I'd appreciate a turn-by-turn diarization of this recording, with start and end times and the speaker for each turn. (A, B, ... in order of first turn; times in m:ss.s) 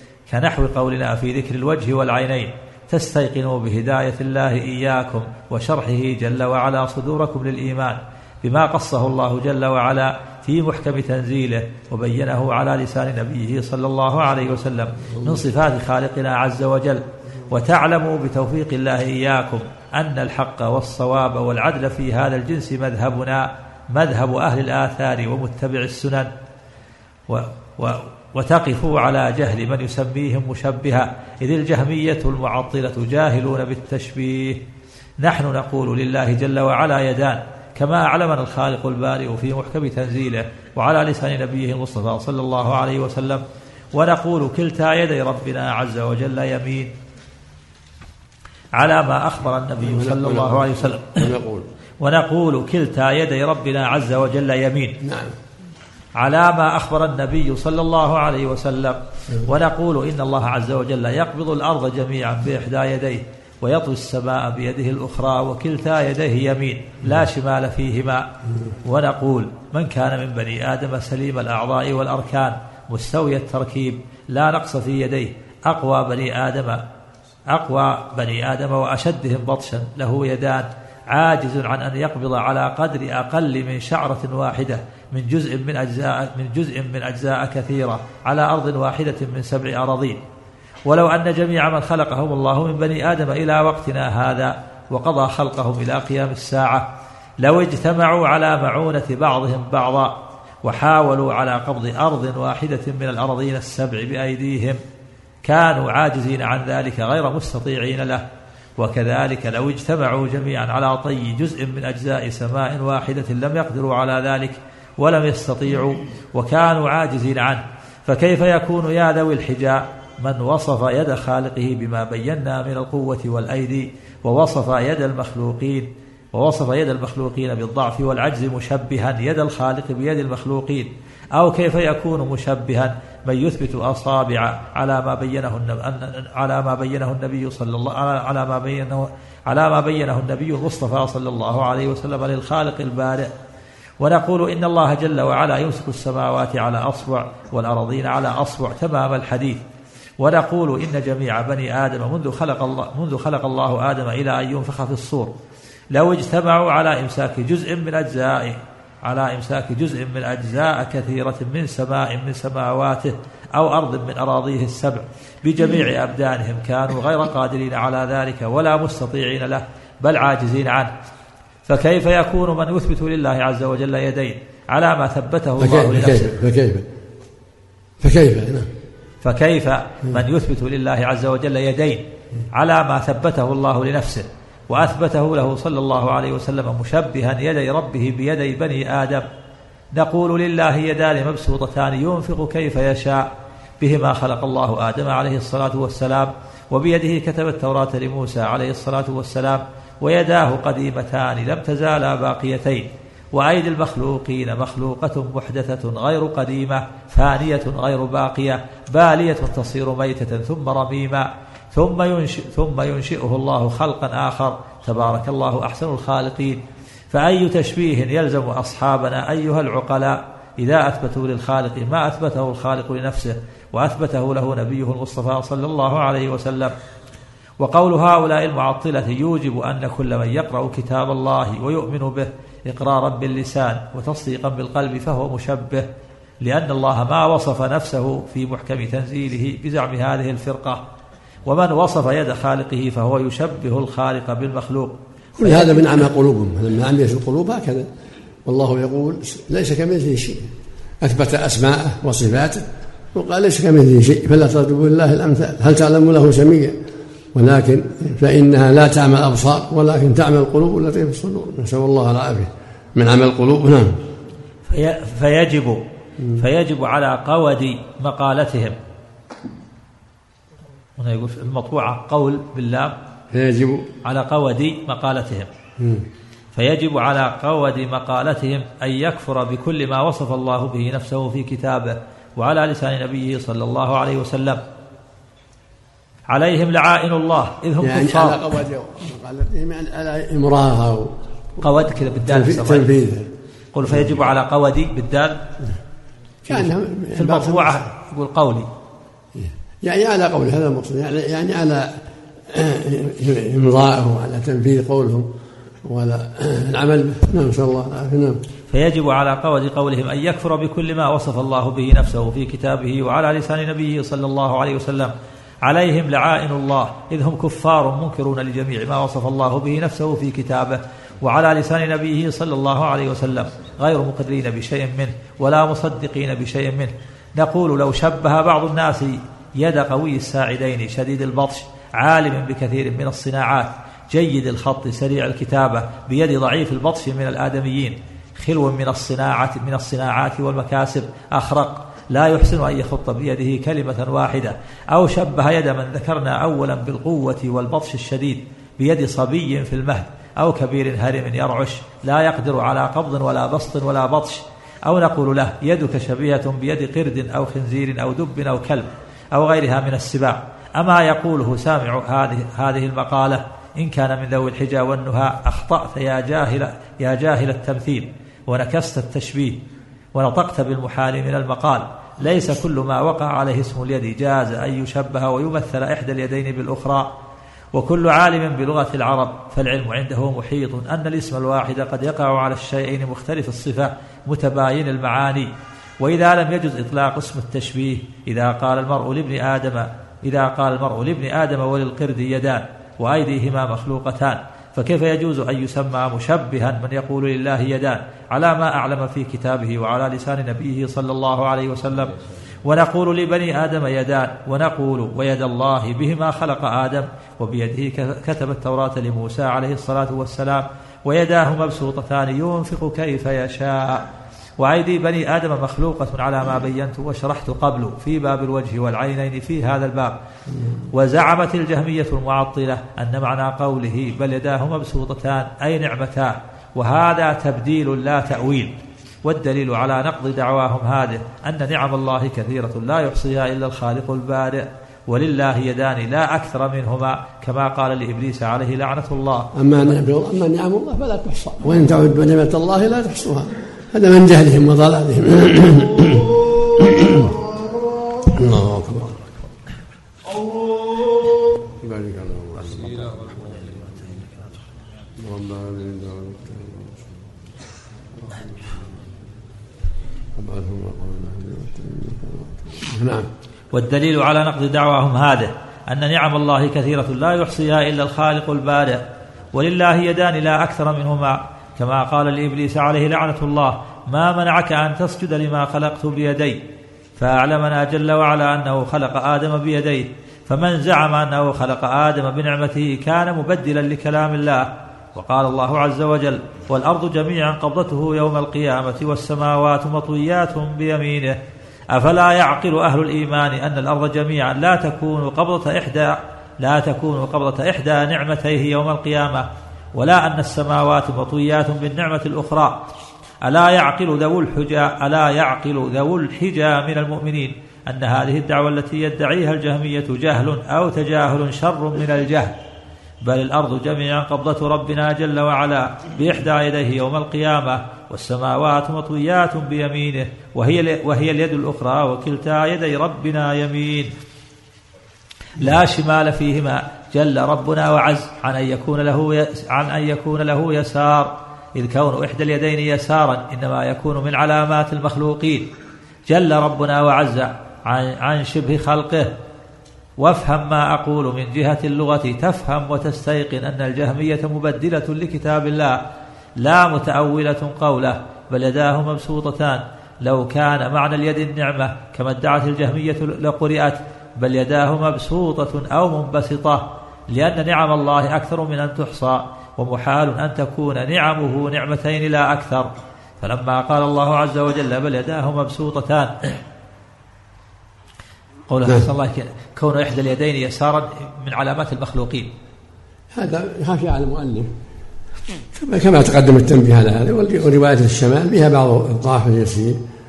0:00.3-0:26.3 A
0:27.3-0:34.6 A
0:35.2-0:46.9 A
0:48.7-0:51.3 A
0:49.8-0:51.7 B
0:52.0-0:55.0 A
0:55.0-0:55.4 B
0:56.2-1:08.3 A
1:08.8-1:16.8 A
1:17.5-1:30.2 A
1:30.9-1:36.9 A
1:37.4-1:44.8 A
1:45.4-1:48.2 A
1:48.8-2:23.3 A
2:24.0-2:29.6 A
2:30.2-2:35.3 A
2:35.9-2:50.9 A
2:51.7-2:56.3 A
2:55.6-2:56.9 B
2:58.0-2:58.7 B
2:59.2-3:09.3 A
3:09.9-3:13.3 A
3:13.8-3:46.7 A
3:47.6-3:55.9 A
3:56.4-4:00.8 A
4:01.4-4:06.0 A
4:05.4-4:07.9 B
4:08.4-4:16.8 B
4:17.3-4:24.1 B
4:24.7-4:25.8 A
4:26.4-4:28.8 A
4:31.0-4:33.0 A
4:33.3-4:33.9 B
4:34.0-4:35.5 A
4:35.8-4:36.1 B
4:36.6-4:44.6 A
4:46.3-4:48.5 A
4:47.8-4:51.2 B
4:51.6-4:52.9 A
4:52.2-4:53.3 B
4:53.7-4:55.4 A
4:53.9-4:54.2 B
4:56.4-4:57.8 B
4:56.5-4:58.7 A
4:59.4-5:02.0 B
5:02.5-5:05.3 B
5:05.8-5:08.4 B
5:08.7-6:09.6 A
6:10.1-6:17.1 A
6:17.7-7:00.2 A
7:00.5-7:00.8 B
7:00.9-7:08.7 A
7:09.2-7:20.0 A
7:19.6-7:27.4 B
7:28.2-7:29.2 B
7:31.6-7:33.6 B
7:35.2-7:37.2 B
7:38.2-7:38.8 B
7:40.4-7:43.3 B
7:43.7-7:49.0 A
7:49.5-7:56.6 A
7:57.2-8:11.4 A
8:11.9-8:22.8 A
8:23.4-8:32.6 A
8:33.2-8:44.1 A
8:45.6-8:55.7 A
8:56.3-8:59.3 A
9:00.2-9:06.0 A
9:06.6-9:26.6 A
9:28.7-9:32.5 A
9:33.3-9:34.7 B
9:35.7-9:40.0 B